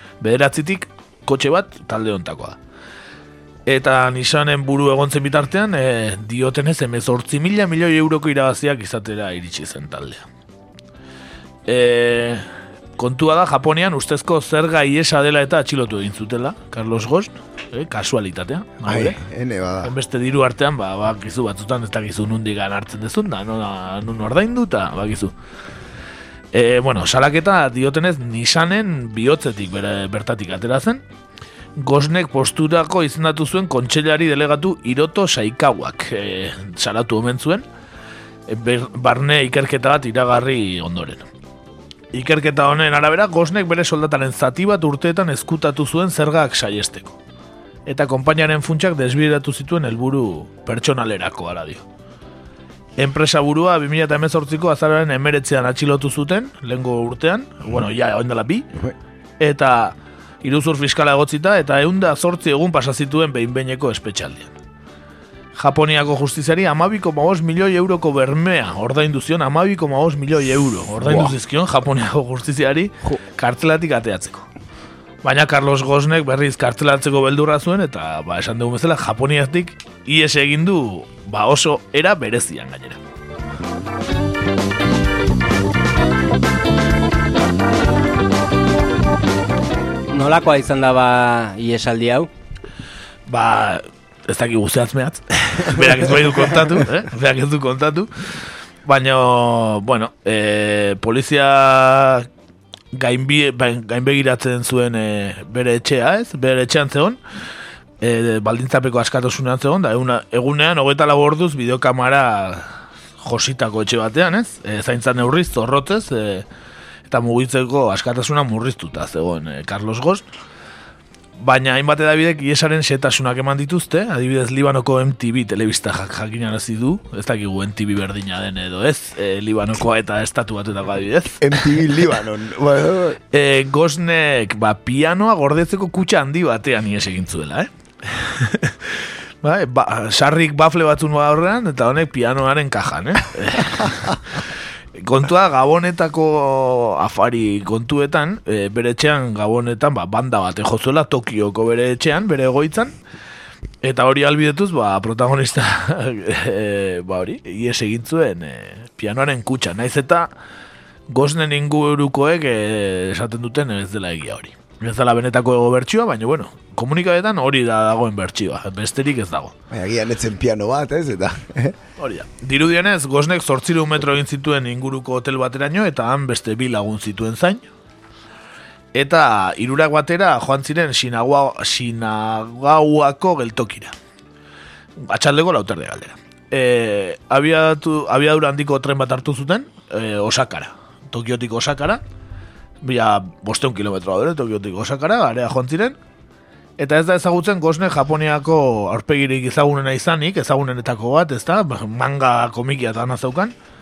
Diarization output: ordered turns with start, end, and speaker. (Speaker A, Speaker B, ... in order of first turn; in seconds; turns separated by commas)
Speaker A: 0.2-2.6, Speaker A: 3.7-10.2, Speaker A: 11.7-12.4, Speaker A: 13.0-19.2, Speaker B: 18.8-19.9, Speaker A: 19.8-25.3, Speaker A: 26.5-31.0, Speaker A: 31.8-37.6, Speaker A: 38.5-41.2, Speaker A: 42.1-47.2, Speaker A: 47.9-51.8, Speaker A: 53.0-58.7, Speaker A: 59.4-64.5, Speaker A: 65.6-74.5, Speaker B: 71.0-71.3, Speaker A: 75.2-83.0, Speaker C: 90.1-92.3, Speaker A: 93.3-102.3, Speaker A: 102.9-107.2, Speaker A: 108.0-116.5, Speaker A: 117.1-120.2, Speaker A: 121.4-132.0, Speaker B: 131.4-133.2, Speaker A: 133.3-144.4, Speaker A: 145.0-152.9, Speaker A: 153.8-160.3, Speaker A: 161.1-169.5, Speaker B: 169.7-171.8, Speaker A: 172.0-177.7, Speaker A: 178.9-183.9, Speaker A: 185.0-192.0, Speaker A: 192.8-195.9, Speaker A: 196.8-203.5